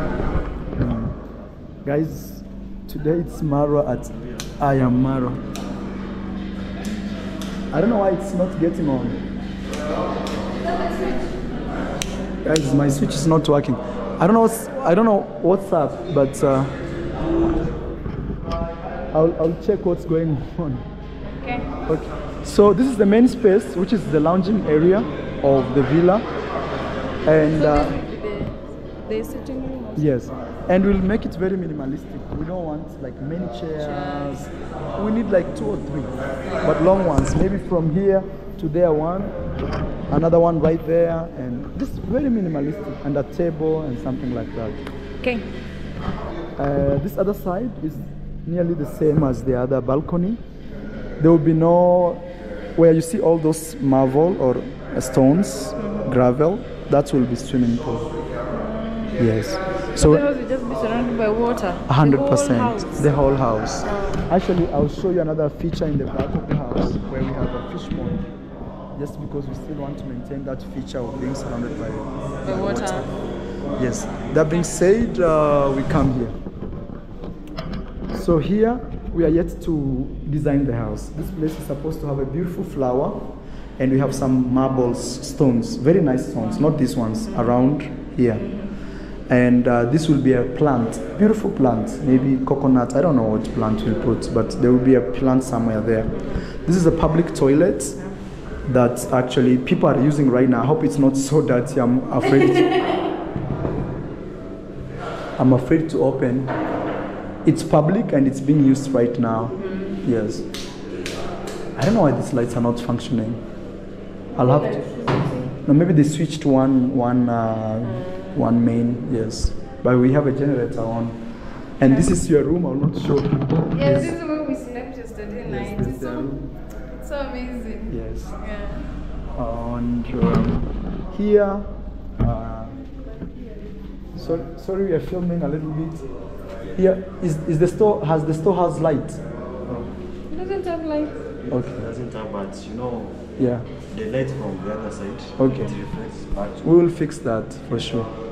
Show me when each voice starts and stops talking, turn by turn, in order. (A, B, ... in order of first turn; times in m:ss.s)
0:00.8-0:01.2 A
0:01.8-0:05.4 A
0:07.7-0:09.2 A
0:10.6-0:11.5 B
0:12.4-0:16.7 A
0:19.1-0:20.8 A
0:21.2-0:21.7 B
0:21.9-0:26.2 A
0:27.2-0:28.0 A
0:27.5-0:30.3 B
0:30.0-0:39.3 A
0:33.8-0:34.4 B
0:40.1-0:44.8 A
0:45.2-0:45.5 B
0:46.6-0:50.4 A
0:51.2-0:58.1 A
0:55.8-0:56.1 B
0:58.5-1:03.2 B
0:59.2-1:00.3 A
1:01.9-1:08.3 A
1:03.8-1:04.2 B
1:08.9-1:13.1 A
1:12.4-1:13.1 B
1:13.8-1:16.4 A
1:18.1-1:28.4 A
1:27.2-1:27.6 B
1:28.4-1:28.7 B
1:29.3-1:38.0 A
1:38.6-1:42.8 A
1:42.6-1:42.9 B
1:45.4-1:46.5 A
1:47.4-1:50.5 A
1:49.6-1:50.0 B
1:51.7-1:53.4 A
1:54.3-1:55.6 B
1:54.3-1:54.8 A
1:55.6-2:01.2 A
1:57.8-1:58.4 B
2:01.8-2:04.1 A
2:01.8-2:02.1 B
2:03.7-2:06.3 B
2:05.4-2:06.5 A
2:07.0-2:08.9 B
2:07.9-2:08.3 A
2:09.3-2:12.8 A
2:14.2-2:16.1 A
2:16.8-2:19.2 A
2:20.3-2:21.2 B
2:21.4-2:23.3 C
2:21.5-2:21.8 A
2:23.4-2:23.6 A
2:23.9-2:26.7 C
2:25.4-2:25.7 A
2:26.6-2:28.1 A